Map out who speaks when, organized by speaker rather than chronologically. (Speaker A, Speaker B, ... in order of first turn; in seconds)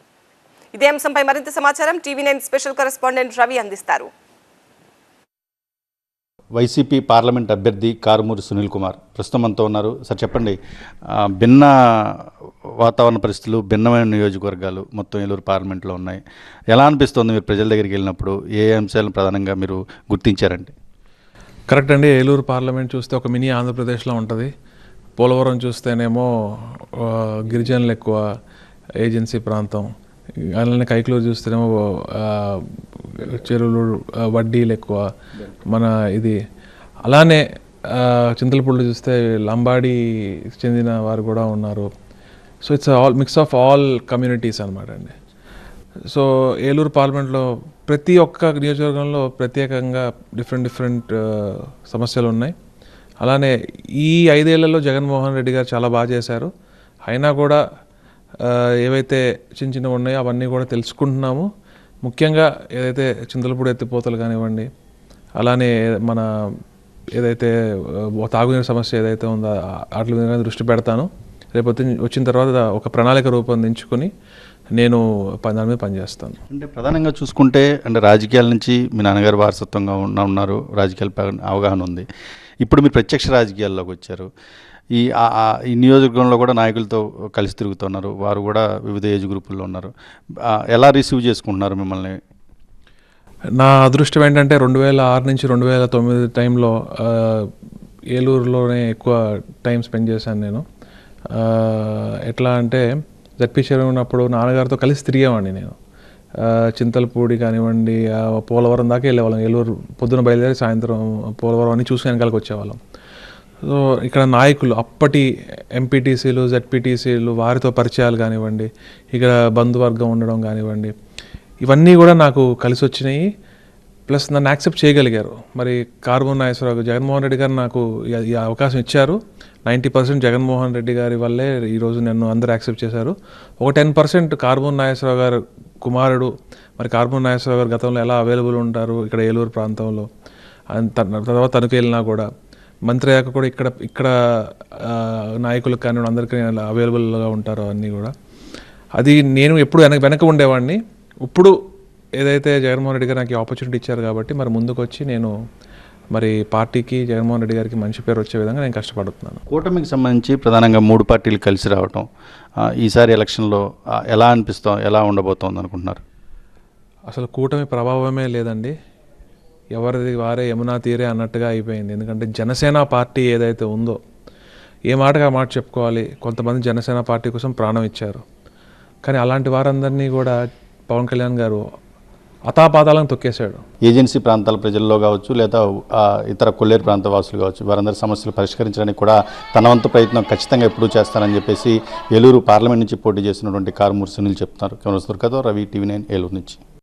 Speaker A: 0.7-4.1
Speaker B: 6.6-10.6, 11.1-12.3, 12.8-20.7, 76.5-82.1, 82.6-84.3, 85.0-89.9, 90.5-92.2, 159.5-162.1, 162.6-166.0, 183.8-196.6
Speaker C: 21.7-24.5, 25.2-28.2, 29.0-29.9, 30.5-35.0, 35.7-36.4, 37.0-40.0, 40.5-41.9, 42.6-45.1, 46.1-52.5, 53.2-56.5, 57.1-57.6, 58.4-61.5, 62.0-64.7, 65.4-66.3, 67.2-67.5, 68.2-74.1, 74.8-76.4, 93.6-97.5, 98.1-100.6, 101.3-105.8, 106.4-112.8, 113.6-120.9, 121.6-123.2, 124.1-140.1, 140.7-142.3, 142.9-144.1, 144.8-148.1, 149.0-151.5, 152.2-155.3, 156.1-159.4, 167.1-168.7, 169.8-174.0, 174.9-178.2, 179.0-181.6, 182.5-183.7